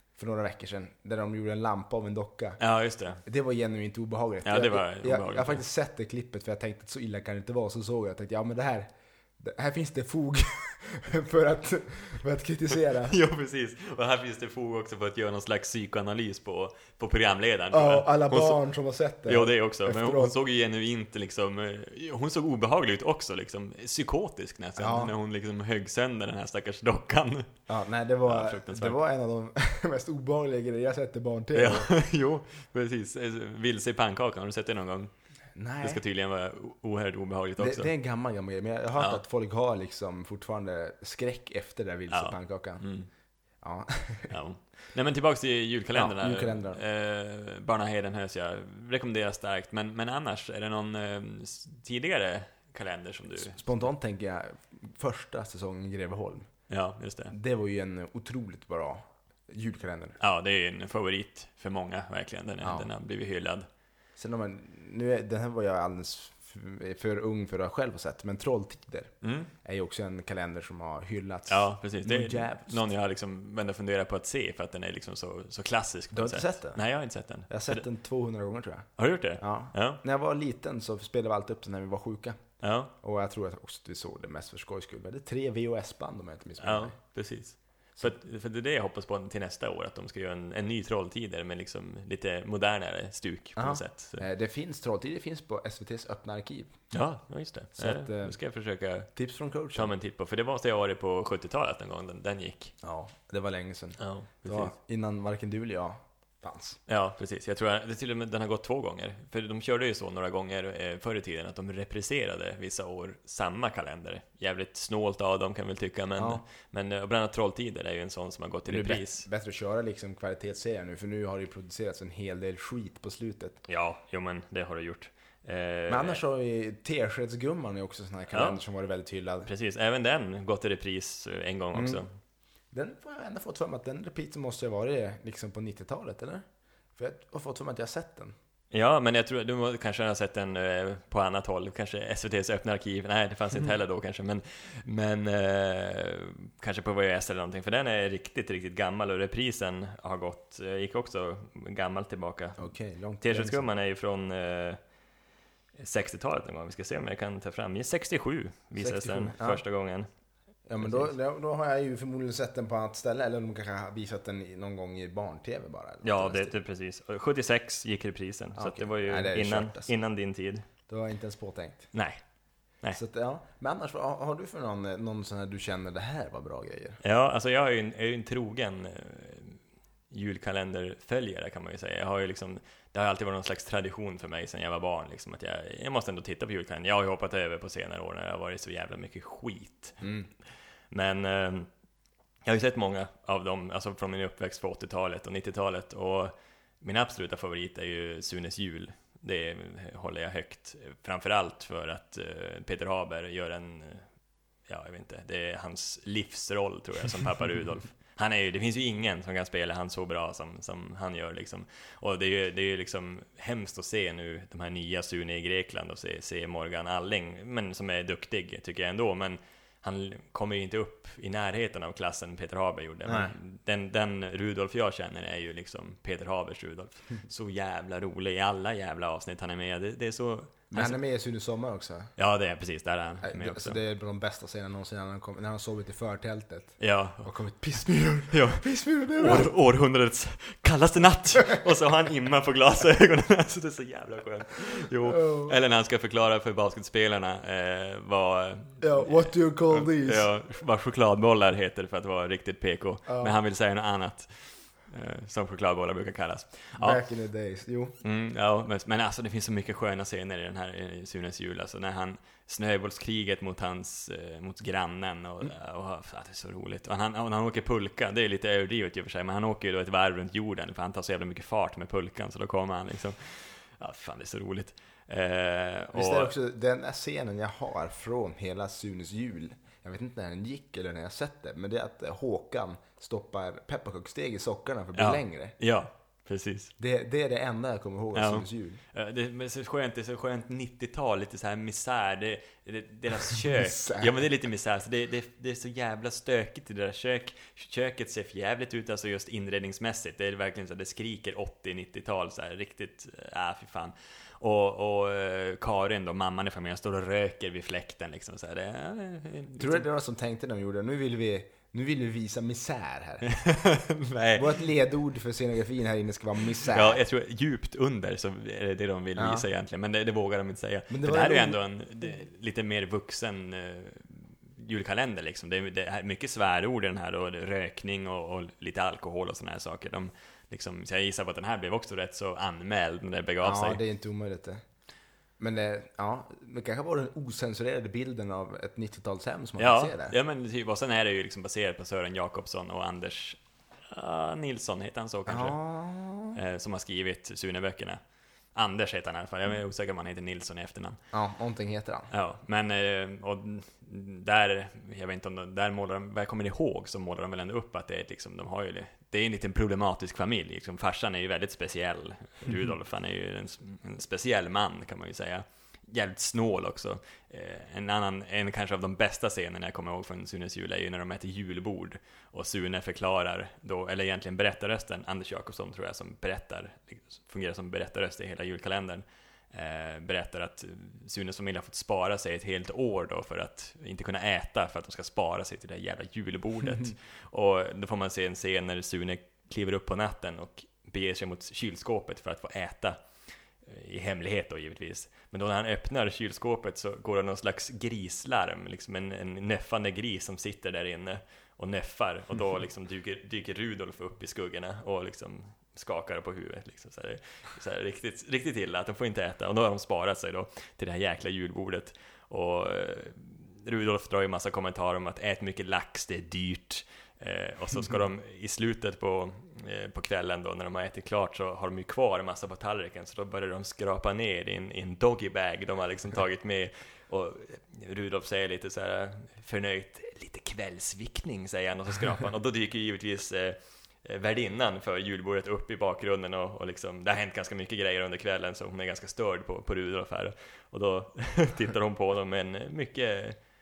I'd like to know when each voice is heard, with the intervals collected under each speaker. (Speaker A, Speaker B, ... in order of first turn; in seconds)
Speaker A: 0.2-2.6, 3.2-13.2, 17.7-20.4, 24.8-25.1, 27.7-31.9, 35.5-36.0, 37.6-42.8, 43.6-44.4, 46.0-46.8, 53.4-56.5, 57.3-60.2, 62.6-62.9, 64.2-72.8, 76.1-76.8, 77.5-82.4, 83.0-87.0, 93.6-96.7, 97.8-98.4, 99.2-99.9, 102.8-106.8, 116.2-116.4, 118.7-123.6, 125.9-129.5, 131.7-132.0, 132.7-136.4, 137.0-138.3, 152.6-153.7, 158.8-159.6, 160.7-166.6, 168.6-169.9, 170.9-171.9, 172.9-177.0, 190.0-190.3, 223.1-223.3, 230.7-232.1, 233.2-239.5, 245.1-245.6, 248.8-250.3, 253.1-253.3, 256.8-258.0, 275.9-285.6, 286.8-288.8, 293.2-294.2, 309.6-313.3, 314.4-317.0, 319.2-319.5, 320.9-321.6, 333.4-334.6, 335.4-340.2, 345.3-346.4, 351.1-352.1
Speaker B: 2.6-3.2, 4.5-5.6, 13.0-18.6, 19.3-27.5, 28.3-29.0, 31.5-35.1, 35.8-37.9, 42.1-43.1, 44.3-53.8, 56.7-57.4, 60.2-63.7, 69.2-69.5, 71.5-77.8, 79.0-80.0, 82.6-82.9, 86.6-94.2, 96.9-99.1, 99.7-102.7, 104.0-104.7, 106.9-119.3, 123.7-126.2, 128.3-128.6, 129.5-132.1, 138.7-152.7, 153.2-154.8, 155.8-160.1, 160.8-161.1, 166.0-170.7, 171.9-172.2, 177.0-190.0, 190.9-191.7, 192.4-204.1, 204.7-231.0, 232.2-233.8, 236.8-237.3, 238.3-257.0, 258.0-276.3, 284.9-286.7, 288.1-309.9, 313.2-314.7, 316.6-333.8, 339.6-345.6, 346.3-348.0, 348.6-351.0, 352.1-393.0, 393.6-443.4